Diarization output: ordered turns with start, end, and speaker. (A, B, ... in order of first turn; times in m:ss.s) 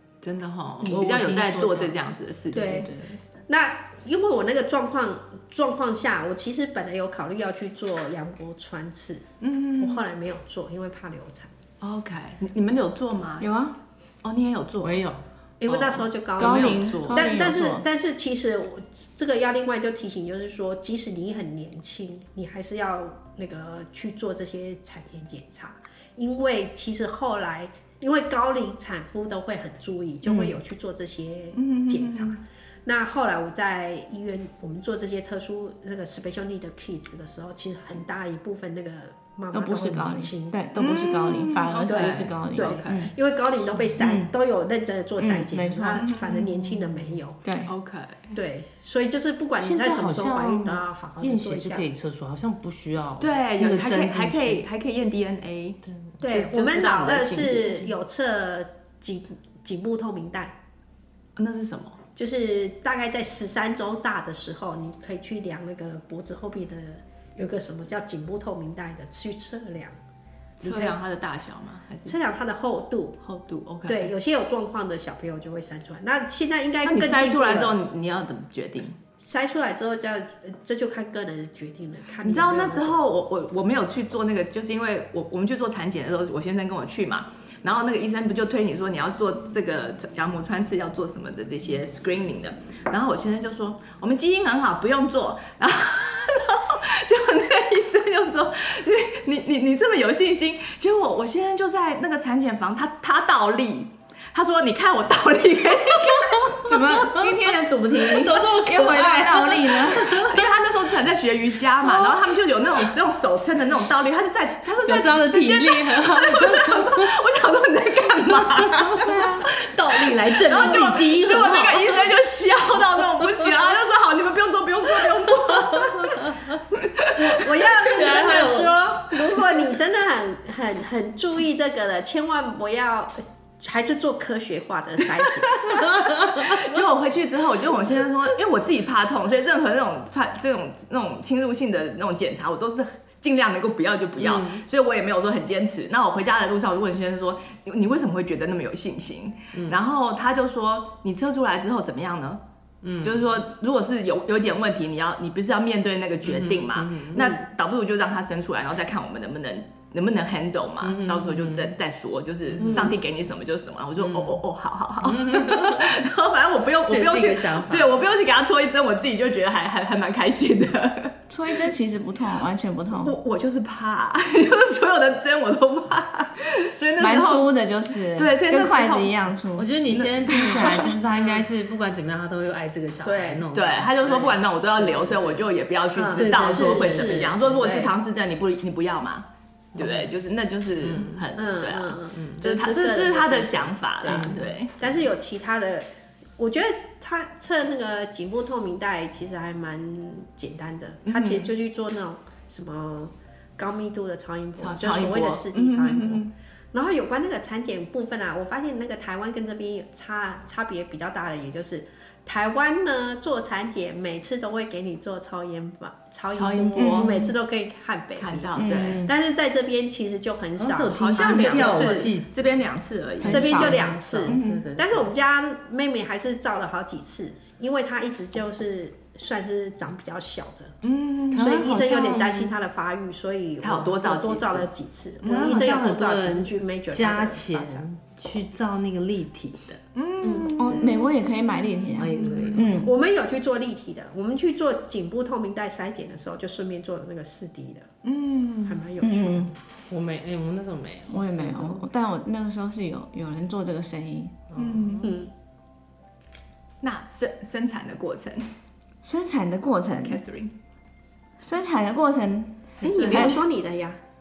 0:00.2-0:03.2 A
0:00.8-0:02.0 B
0:02.5-0:02.9 C
0:03.5-0:09.3 C
0:09.4-0:10.0 A
0:09.8-0:11.5 C
0:11.8-0:13.5 A
0:13.4-0:13.8 D
0:14.2-0:15.0 A
0:14.8-0:15.2 B
0:15.6-0:40.6 C
0:15.6-0:17.5 A
0:16.4-0:17.8 D
0:30.2-0:30.5 D
0:31.5-0:32.4 A
0:39.5-0:43.1 D
0:40.7-0:43.1 A
0:41.9-0:47.4 C
0:44.0-0:44.3 D
0:45.2-0:47.0 A
0:45.3-0:46.0 D
0:47.4-0:47.7 D
0:47.6-0:48.4 A
0:48.3-0:51.9 C
0:49.6-0:54.6 B
0:53.2-0:57.9 A
0:56.2-1:00.5 C
1:01.4-1:02.0 A
1:02.1-1:10.0 C
1:10.6-1:12.2 A
1:10.6-1:11.0 C
1:12.0-1:13.2 C
1:13.2-1:14.1 A
1:13.8-1:17.8 C
1:16.8-1:19.0 A
1:19.2-1:23.0 C
1:22.2-1:46.8 A
1:46.6-1:50.4 D
1:48.0-1:50.5 B
1:49.9-2:07.5 A
1:51.8-1:52.1 B
1:54.8-1:57.1 B
1:58.6-2:02.1 B
2:05.4-2:06.4 B
2:07.2-2:15.9 C
2:07.9-2:08.8 B
2:15.2-2:32.4 A
2:24.2-2:24.6 B
2:29.5-2:29.8 B
2:32.8-2:33.2 B
2:33.0-2:51.2 A
2:36.2-2:37.4 B
2:40.8-2:41.7 B
2:42.6-2:42.9 B
2:42.6-2:42.9 C
2:44.0-2:44.4 B
2:45.0-2:45.9 B
2:46.9-2:48.0 B
2:51.3-2:53.1 D
2:53.0-2:57.5 A
2:57.0-2:59.7 D
2:58.1-2:59.1 A
2:59.6-3:05.4 B
2:59.9-3:01.0 A
3:00.2-3:00.8 D
3:03.1-3:03.4 C
3:03.5-3:14.8 A
3:06.0-3:07.8 C
3:06.0-3:07.9 B
3:09.8-3:10.1 B
3:10.8-3:11.2 B
3:11.4-3:42.1 C
3:14.0-3:14.4 B
3:21.0-3:21.5 A
3:24.6-3:26.3 A
3:36.3-3:37.2 A
3:36.8-3:37.2 D
3:38.2-3:39.1 A
3:38.6-3:39.0 D
3:40.6-3:42.3 B
3:40.9-3:43.4 A
3:43.2-3:45.1 B
3:43.2-3:44.4 D
3:43.3-3:50.8 C
3:44.3-3:44.7 A
3:50.8-3:51.5 A
3:51.3-3:52.6 B
3:51.3-3:57.8 C
3:53.6-3:54.7 A
3:55.2-3:55.8 A
3:55.2-3:59.8 B
3:59.9-4:01.1 A
4:00.2-4:00.8 C
4:00.6-4:02.9 D
4:01.9-4:02.9 B
4:02.2-4:02.6 A
4:02.7-4:07.9 C
4:08.0-4:08.8 A
4:08.6-4:09.5 C
4:09.0-4:09.5 D
4:09.9-4:11.9 B
4:11.1-4:14.3 D
4:14.5-4:15.1 B
4:14.6-4:15.1 A
4:15.0-4:15.3 C
4:16.8-4:18.5 A
4:19.0-4:20.2 D
4:20.0-4:20.5 A
4:21.4-4:23.4 D
4:22.8-4:24.0 C
4:22.8-4:23.4 A